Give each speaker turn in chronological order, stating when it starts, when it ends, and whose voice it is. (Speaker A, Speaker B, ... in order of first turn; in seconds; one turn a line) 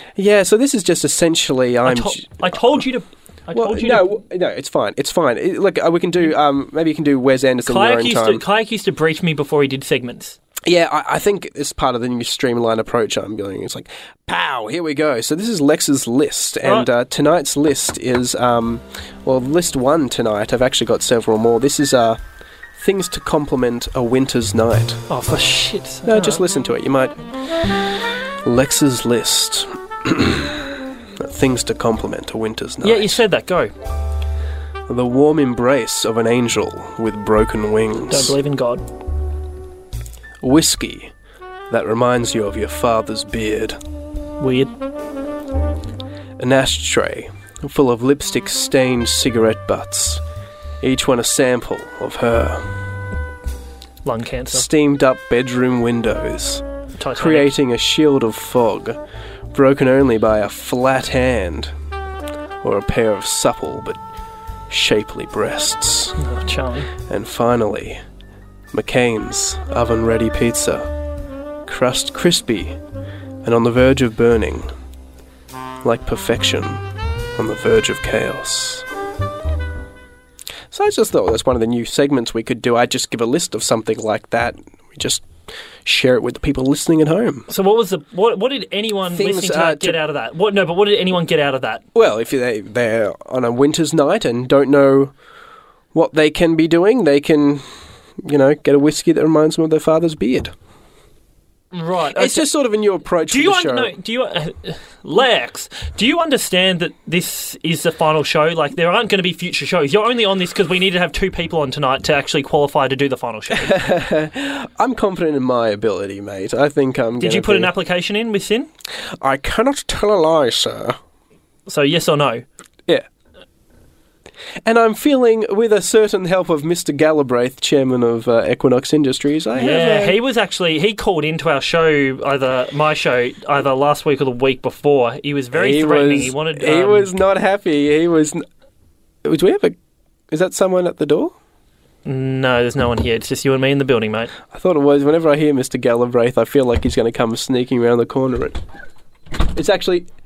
Speaker A: 0.2-2.5
Speaker B: 1.9-4.2
Speaker A: 3.5-8.4
Speaker B: 7.7-10.4
Speaker A: 10.7-22.2
Speaker A: 22.8-25.0
Speaker B: 25.1-26.5
Speaker A: 26.1-27.9
Speaker A: 28.4-33.2
Speaker B: 32.8-33.7
Speaker A: 34.9-38.4
Speaker B: 38.1-38.8
Speaker A: 40.4-41.1
Speaker A: 41.7-43.8
Speaker B: 44.4-44.7
Speaker A: 46.4-50.2
Speaker A: 50.8-52.7
Speaker B: 54.0-54.7
Speaker A: 54.5-59.0
Speaker B: 57.0-57.6
Speaker A: 59.5-61.7
Speaker A: 62.6-64.0
Speaker A: 64.7-66.2
Speaker B: 66.2-66.9
Speaker A: 67.1-68.0
Speaker A: 68.7-70.9
Speaker A: 71.7-72.8
Speaker A: 73.4-74.7
Speaker A: 75.8-76.8
Speaker A: 77.4-78.8
Speaker A: 80.7-85.3
Speaker A: 85.8-87.5
Speaker B: 87.5-91.8
Speaker A: 89.1-90.0
Speaker A: 91.9-95.1
Speaker A: 95.9-97.7
Speaker A: 98.2-100.5
Speaker B: 101.7-102.5
Speaker A: 102.2-103.9
Speaker B: 103.3-113.8
Speaker A: 113.5-117.7
Speaker B: 117.2-118.7
Speaker A: 119.2-121.0
Speaker B: 121.7-122.4
Speaker A: 124.7-130.2
Speaker B: 129.6-137.1
Speaker A: 135.5-138.4
Speaker A: 139.2-139.8
Speaker A: 140.3-141.3
Speaker B: 142.1-144.3
Speaker A: 144.5-148.6
Speaker A: 149.4-150.1